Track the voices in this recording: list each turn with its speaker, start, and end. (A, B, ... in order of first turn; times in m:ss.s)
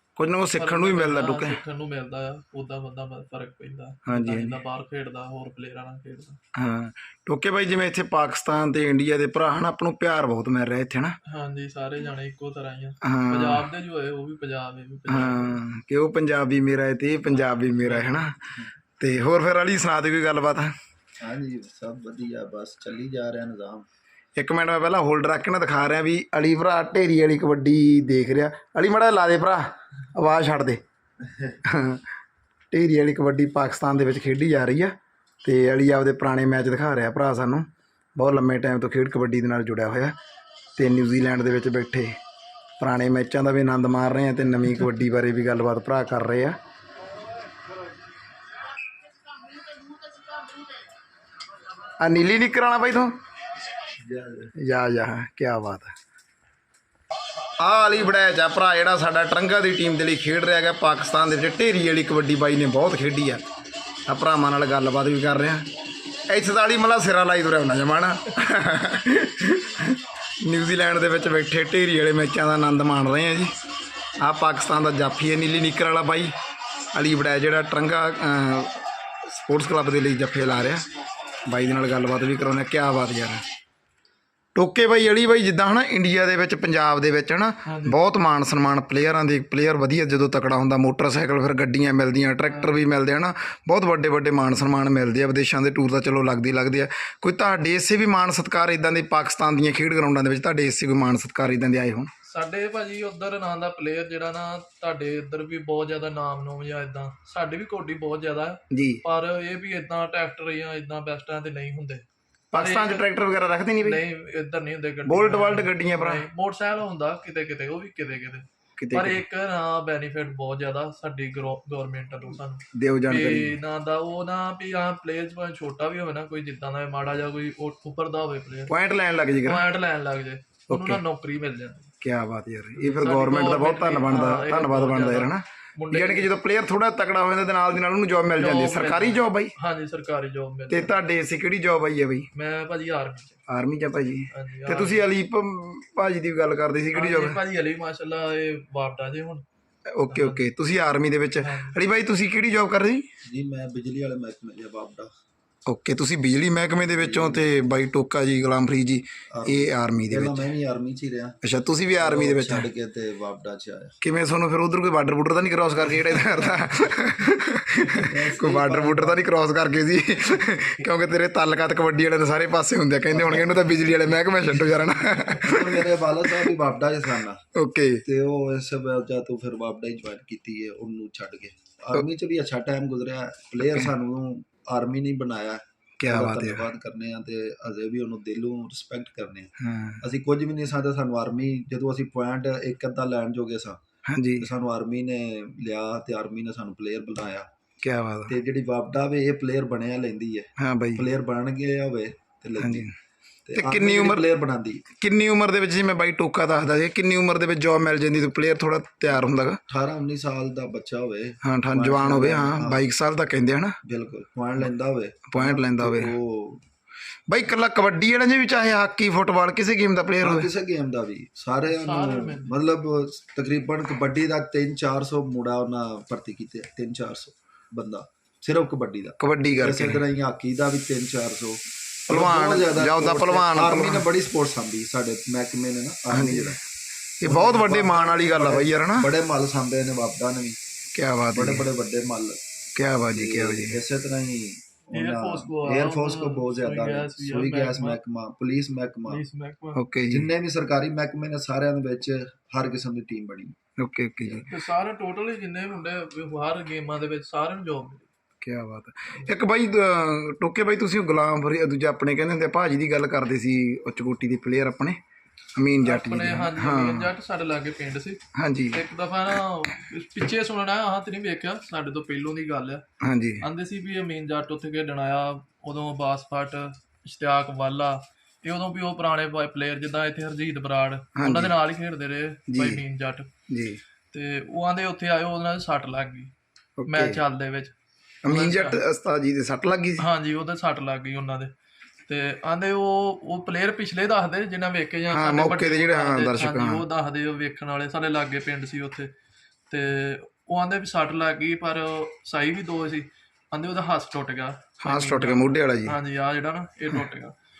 0:00.2-0:01.6 A
0:00.6-0:06.4 B
0:04.0-0:04.6 A
0:06.6-0:11.2 A
0:11.3-0:15.6 B
0:13.0-0:13.6 A
0:15.1-0:18.4 A
0:17.3-0:18.3 B
0:19.0-0:20.7 A
0:21.2-0:23.8 C
0:24.4-0:30.8 A
0:31.7-0:32.0 A
0:32.7-0:34.9 A
0:35.4-0:40.2 A
0:40.8-0:42.1 A
0:42.8-0:46.6 A
0:52.0-0:53.1 A
0:54.0-0:54.5 C
0:54.6-0:55.9 A
0:57.6-1:03.4 A
1:04.1-1:05.7 A
1:06.3-1:13.5 A
1:14.2-1:16.3 A
1:16.9-1:20.8 A
1:21.5-1:23.4 A
1:24.5-1:42.1 A
1:27.6-1:28.0 B
1:32.5-1:32.8 B
1:42.2-1:53.0 B
1:48.7-1:49.0 A
1:52.5-1:54.0 A
1:53.8-2:08.7 B
1:55.0-1:56.2 A
1:58.8-1:59.2 A
2:02.7-2:03.6 A
2:08.7-2:09.7 A
2:09.4-2:11.9 B
2:10.7-2:11.0 A
2:12.0-2:19.5 A
2:12.8-2:16.3 B
2:18.4-2:20.9 B
2:20.7-2:22.3 A
2:22.3-2:23.4 B
2:23.5-2:27.4 A
2:24.3-2:25.1 B
2:26.9-2:29.4 B
2:29.9-2:33.0 A
2:30.1-2:30.4 B
2:31.4-2:31.8 B
2:33.2-2:35.1 C
2:35.7-2:40.5 A
2:37.0-2:37.5 C
2:39.3-2:41.4 C
2:41.4-2:42.7 A
2:42.0-2:43.9 C
2:44.0-2:56.3 A
2:48.0-2:49.2 C
2:53.1-2:53.6 C
2:55.4-2:57.4 C
2:57.5-2:58.0 A
2:58.0-3:13.8 C
3:03.6-3:03.9 A
3:06.0-3:06.7 A
3:09.6-3:10.0 A
3:14.1-3:14.5 A
3:14.4-3:17.4 C
3:17.8-3:18.3 A
3:18.3-3:22.8 C
3:20.6-3:21.0 A
3:22.6-3:22.9 A
3:23.5-3:24.8 C
3:23.5-3:24.2 A
3:25.0-3:29.6 A
3:29.7-3:32.8 C
3:31.4-3:33.8 A
3:33.8-3:36.6 C
3:35.3-3:36.1 A
3:37.3-3:40.5 A
3:40.2-3:56.6 C
3:41.7-3:42.5 B
3:49.2-3:50.0 A
3:52.1-3:54.0 A
3:56.1-3:56.6 A
3:57.2-3:59.1 A
3:57.2-4:00.6 C
4:00.9-4:01.6 A
4:01.3-4:02.4 C
4:02.8-4:03.8 A
4:03.1-4:09.2 C
4:04.9-4:08.0 B
4:09.1-4:09.8 B
4:09.7-4:10.3 A
4:10.1-4:13.6 C
4:13.8-4:14.4 A
4:14.2-4:14.5 C
4:14.5-4:18.1 B
4:18.4-4:25.0 A
4:25.6-4:27.1 A
4:25.8-4:28.2 B
4:28.4-4:28.8 A
4:28.7-4:32.8 B
4:33.0-4:33.4 A
4:33.4-4:43.3 B
4:41.1-4:41.6 A
4:42.5-4:42.8 A
4:43.5-4:43.8 A
4:44.1-4:46.3 B
4:46.8-4:47.2 A
4:46.9-4:47.7 B
4:48.2-4:50.0 A
4:48.3-4:48.8 B
4:50.0-4:51.5 B
4:52.1-4:59.1 B
4:55.1-4:56.8 A
4:59.7-5:07.3 B
5:04.8-5:06.0 A